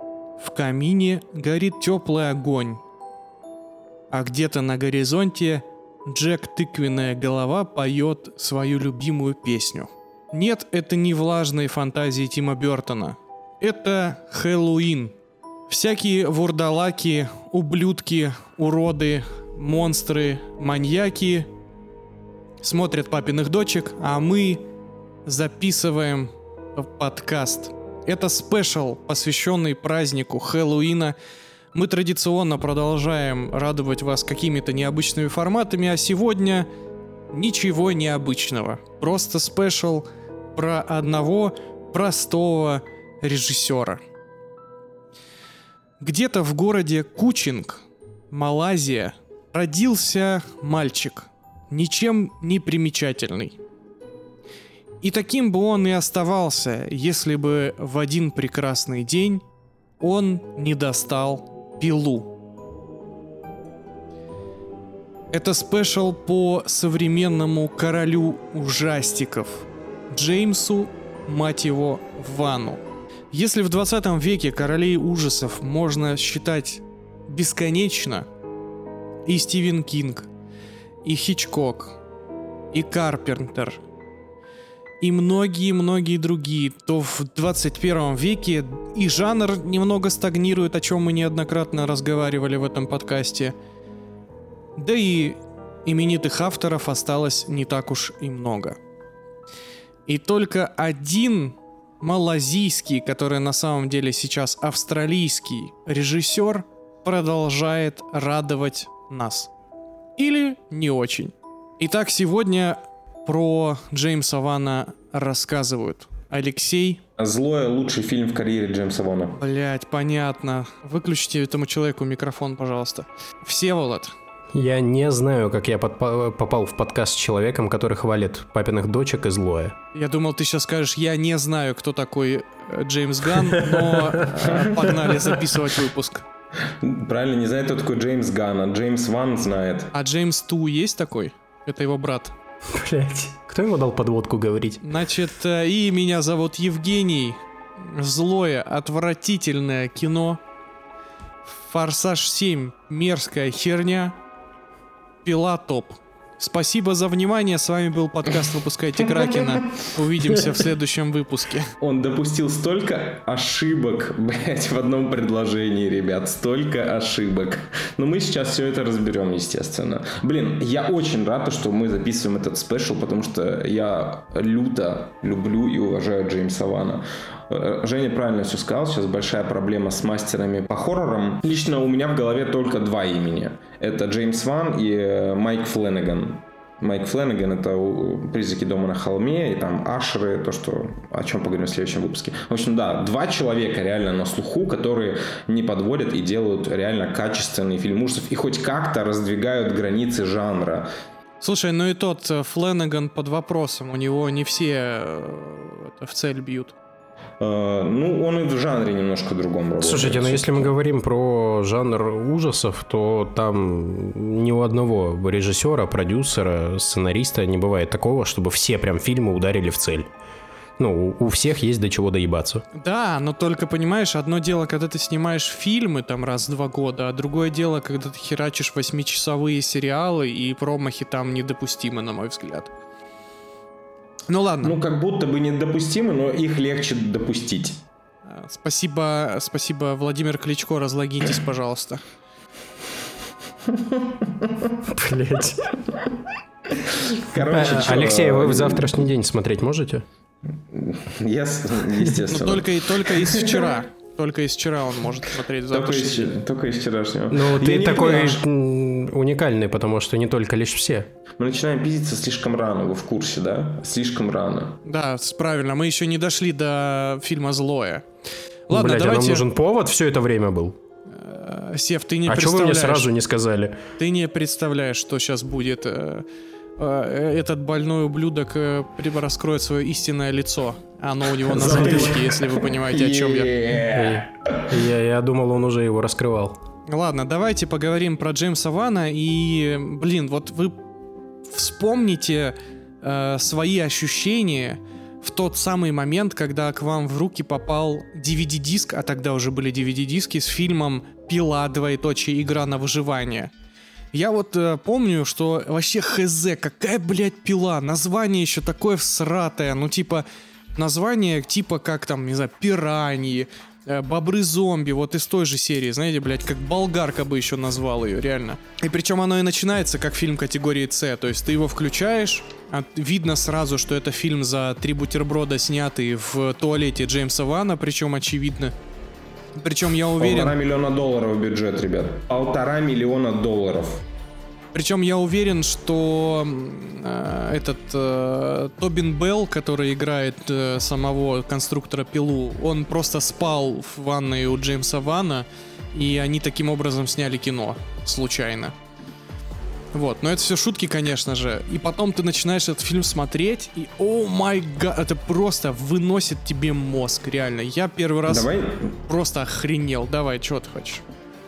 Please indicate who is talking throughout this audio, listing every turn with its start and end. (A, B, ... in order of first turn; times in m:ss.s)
0:00.4-0:02.8 A
0:04.1-0:15.1 A
0:15.7-0:21.5 A
0:22.6-0:24.6 A
0:25.2-0:31.2 A
0:31.7-0:36.7 A
0:37.3-0:44.0 A
0:46.0-0:53.6 A
0:55.0-0:59.4 A
1:00.0-1:02.3 A
1:05.3-1:18.3 A
1:19.2-1:20.3 A
1:21.0-1:22.0 A
1:22.7-1:23.8 A
1:25.0-1:33.5 A
1:34.8-1:38.8 A
1:40.1-1:49.5 A
1:50.2-1:57.0 A
1:57.2-1:59.4 B
1:59.4-2:04.1 A
2:04.5-2:09.8 C
2:09.9-2:16.2 A
2:13.5-2:14.3 C
2:16.8-2:19.9 B
2:19.9-2:22.4 A
2:22.7-2:24.8 C
2:24.8-2:30.4 A
2:31.4-2:34.2 A
2:35.2-2:41.7 A
2:41.8-3:20.9 B
3:21.4-3:26.7 A
3:27.4-3:30.7 B
3:29.8-3:40.1 C
3:40.8-3:42.6 C
3:42.7-3:52.7 A
3:54.3-3:54.8 A
3:54.6-3:57.8 B
3:58.2-4:02.0 A
4:03.6-4:04.8 B
4:04.8-4:05.7 C
4:06.7-4:09.1 B
4:07.3-4:10.0 C
4:10.7-4:13.7 B
4:12.3-4:16.3 A
4:15.7-4:18.4 B
4:17.3-4:21.1 C
4:21.4-4:24.8 B
4:24.8-4:28.0 A
4:28.7-4:29.4 A
4:28.7-4:30.8 C
4:31.1-4:33.1 A
4:32.2-4:33.8 C
4:34.0-4:36.2 A
4:36.8-4:43.5 A
4:41.4-4:44.7 B
4:43.9-4:46.6 C
4:46.9-4:50.8 A
4:51.5-5:03.5 A
5:04.1-5:28.7 A
5:29.6-5:30.6 A
5:30.2-5:34.0 B
5:34.7-5:48.7 A
5:49.9-5:58.5 A
5:58.2-5:58.9 B
5:59.0-6:01.0 A